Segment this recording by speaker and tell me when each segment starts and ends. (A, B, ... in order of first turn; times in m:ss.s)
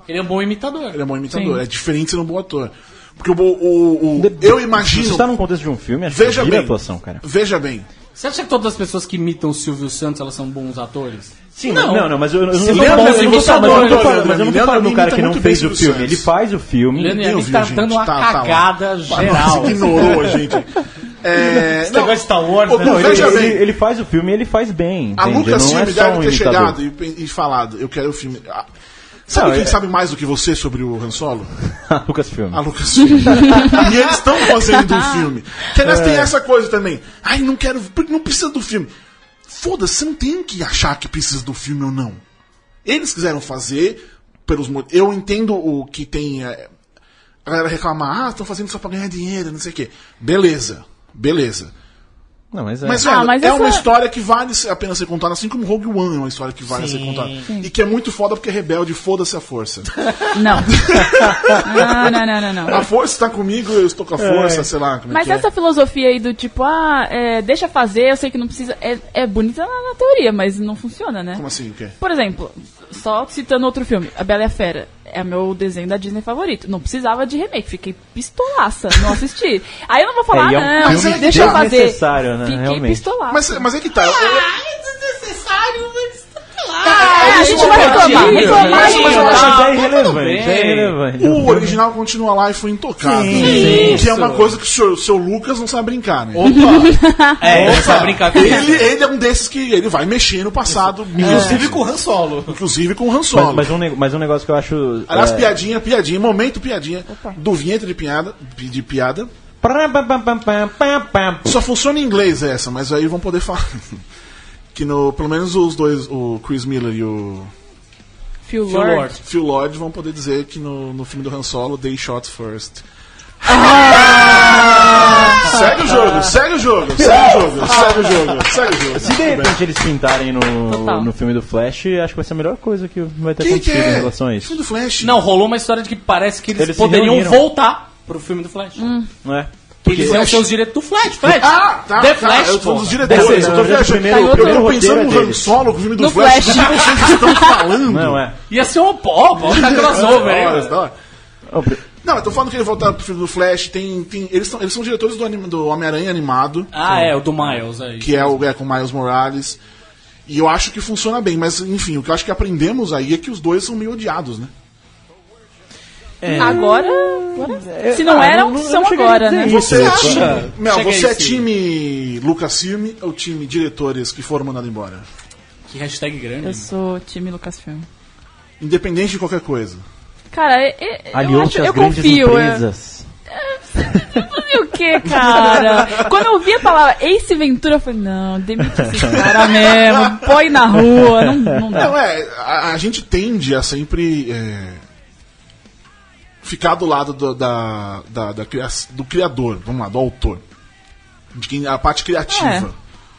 0:00.1-0:01.0 A
0:00.9-0:05.3 B
0:01.3-0:01.6 C
0:04.2-0:07.2 D
0:06.1-0:07.9 B
0:08.2-0:14.2 A
0:11.6-0:17.2 D
0:12.7-0:16.3 B
0:17.0-0:20.3 A
0:17.1-0:23.6 B
0:21.8-0:23.5 E
0:22.8-0:26.8 D
0:25.2-0:28.6 B
0:29.3-0:31.5 B
0:29.3-0:29.8 D
0:31.7-0:32.6 D
0:32.5-0:38.9 B
0:33.3-0:33.8 D
0:33.4-0:33.8 C
0:34.9-0:35.2 C
0:35.8-0:36.3 D
0:39.5-0:42.2 B
0:42.8-0:46.7 B
0:47.5-0:51.7 B
0:52.5-0:53.0 D
0:52.8-1:05.5 B
0:53.0-0:53.9 C
0:56.7-0:57.5 E
1:00.3-1:00.8 C
1:01.0-1:01.6 D
1:01.6-1:02.8 C
1:04.2-1:04.7 D
1:05.1-1:11.4 C
1:11.3-1:12.0 B
1:12.0-1:23.7 C
1:20.3-1:23.0 D
1:20.8-1:21.6 B
1:23.3-1:24.5 B
1:24.0-1:31.0 A
1:26.8-1:29.6 B
1:27.1-1:29.6 C
1:27.3-1:28.7 E
1:27.4-1:31.8 D
1:31.2-1:36.7 B
1:33.0-1:34.1 D
1:33.3-1:34.6 A
1:33.4-1:34.0 C
1:36.3-1:38.3 E
1:36.5-1:37.4 C
1:37.4-1:38.9 A
1:37.5-1:42.0 B
1:38.4-1:38.6 C
1:40.7-1:42.6 E
1:42.5-1:43.8 B
1:43.3-1:45.6 D
1:45.1-1:49.3 B
1:47.1-1:47.4 C
1:49.6-1:51.6 D
1:51.4-1:54.0 B
1:54.7-1:57.5 B
1:58.4-1:59.1 C
1:58.7-1:59.2 A
1:59.2-2:02.8 B
2:03.4-2:09.6 B
2:03.5-2:05.4 C
2:05.4-2:06.0 D
2:07.0-2:08.3 D
2:08.9-2:14.6 D
2:10.7-2:11.1 C
2:13.4-2:15.2 B
2:15.0-2:18.9 A
2:16.5-2:17.4 D
2:18.8-2:19.1 C
2:19.2-2:20.2 D
2:19.8-2:20.5 B
2:19.9-2:23.7 A
2:21.0-2:28.2 B
2:23.0-2:25.6 D
2:23.8-2:24.7 C
2:26.0-2:27.7 C
2:27.8-2:28.4 D
2:28.5-2:30.8 A
2:29.4-2:30.9 B
2:31.5-2:31.8 D
2:32.0-2:36.7 B
2:36.7-2:38.4 A
2:36.9-2:37.6 D
2:38.0-2:39.6 B
2:40.3-2:44.5 B
2:46.2-2:46.7 E
2:46.2-2:50.5 D
2:46.3-2:49.9 C
2:49.4-2:55.0 B
2:49.8-2:51.5 A
2:55.7-2:56.7 A
2:56.4-2:57.9 C
2:58.6-2:59.8 B
3:00.3-3:02.6 C
3:01.1-3:03.1 D
3:03.3-3:11.9 C
3:03.9-3:04.2 D
3:05.0-3:06.1 B
3:09.0-3:10.5 B
3:11.0-3:11.8 D
3:11.7-3:14.8 B
3:16.4-3:20.4 B
3:21.3-3:22.7 B
3:22.3-3:22.7 C